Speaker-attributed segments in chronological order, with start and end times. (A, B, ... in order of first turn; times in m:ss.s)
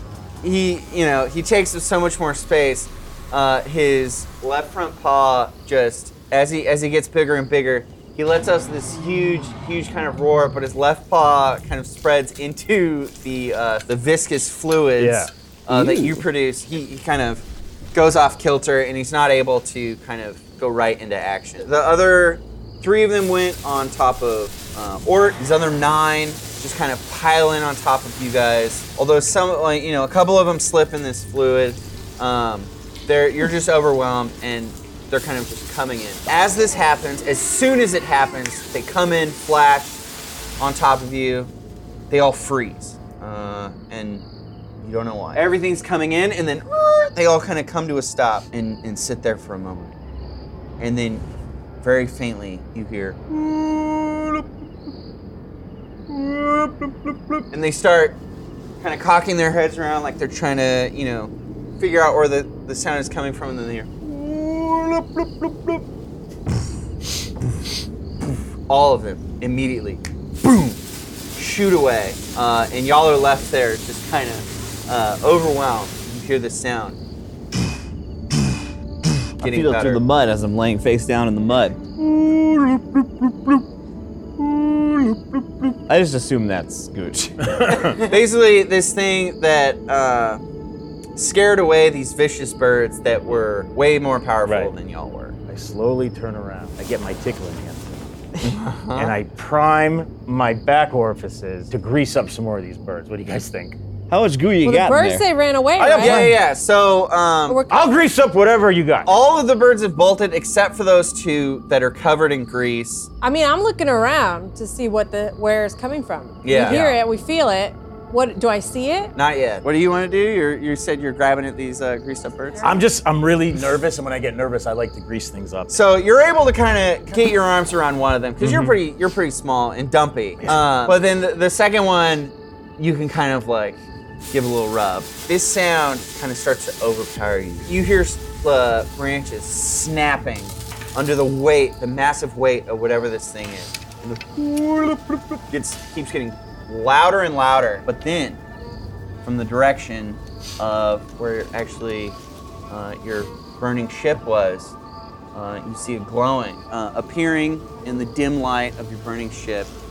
0:00.4-0:39.9 A
0:15.0-0:15.3 B
0:15.7-0:16.2 C
0:40.6-0:41.5 A
0:42.1-0:44.2 A
0:44.8-0:49.9 A
0:50.8-0:51.2 A
0:51.8-0:54.5 A
0:56.1-0:58.2 A
0:58.8-1:05.8 A
1:08.7-1:10.8 A
1:11.4-1:17.0 A
1:19.4-1:20.0 A
1:19.4-1:21.8 C
1:22.0-1:23.6 B
1:24.6-1:25.7 B
1:25.9-1:27.6 C
1:27.4-1:28.0 B
1:27.7-1:30.4 A
1:31.2-1:35.4 A
1:34.5-1:34.7 B
1:35.5-1:38.1 B
1:38.4-1:39.2 A
1:39.0-1:43.8 B
1:44.1-1:45.3 C
1:44.6-1:46.3 D
1:45.8-1:47.6 A
1:46.0-1:46.3 B
1:47.5-1:47.8 D
1:47.7-1:49.1 B
1:49.1-1:53.1 A
1:53.2-1:59.1 D
1:56.4-1:57.0 A
1:59.2-2:02.8 A
2:02.6-2:05.8 B
2:05.7-2:13.8 A
2:08.4-2:08.7 B
2:14.3-2:28.4 A
2:29.2-2:32.2 A
2:32.7-2:34.8 A
2:35.3-2:39.7 A